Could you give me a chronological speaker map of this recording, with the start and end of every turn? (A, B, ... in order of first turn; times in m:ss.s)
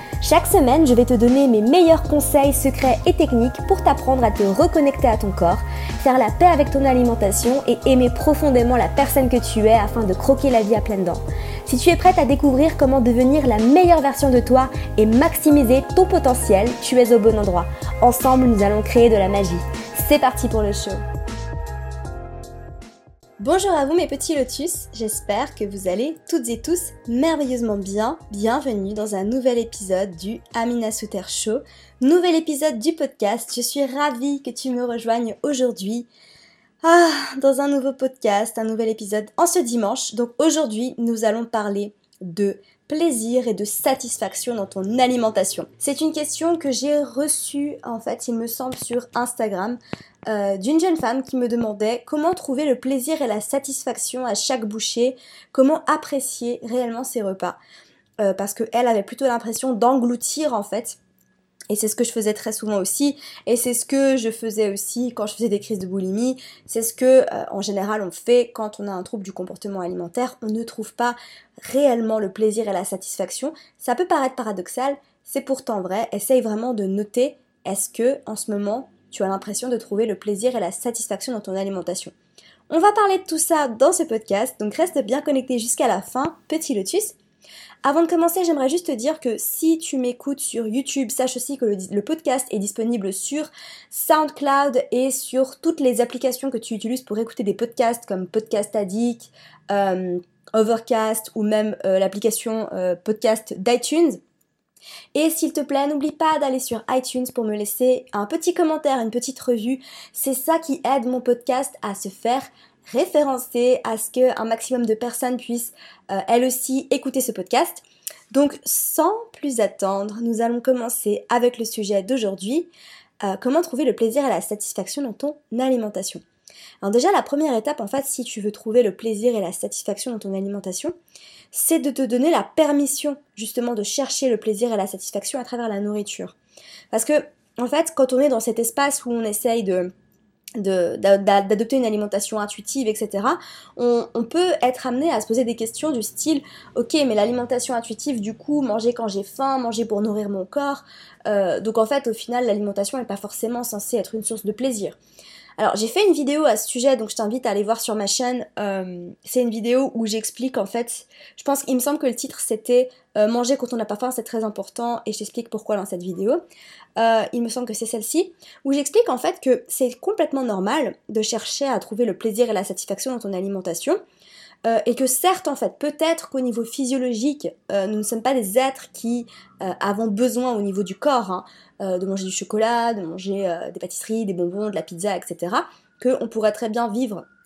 0:00.2-0:21.0 A
0:23.4-0:36.1 A
0:36.8-0:57.6 A
0:58.2-1:01.0 A
1:01.7-1:22.1 A
1:22.7-1:27.2 A
1:27.8-1:44.2 A
1:45.1-2:02.7 A
2:03.2-2:06.2 A
2:06.8-2:11.0 A
2:11.5-2:16.4 A
2:16.9-2:19.9 A
2:20.6-2:35.0 A
2:35.6-2:46.4 A
2:47.0-2:54.0 A
2:54.6-3:07.2 A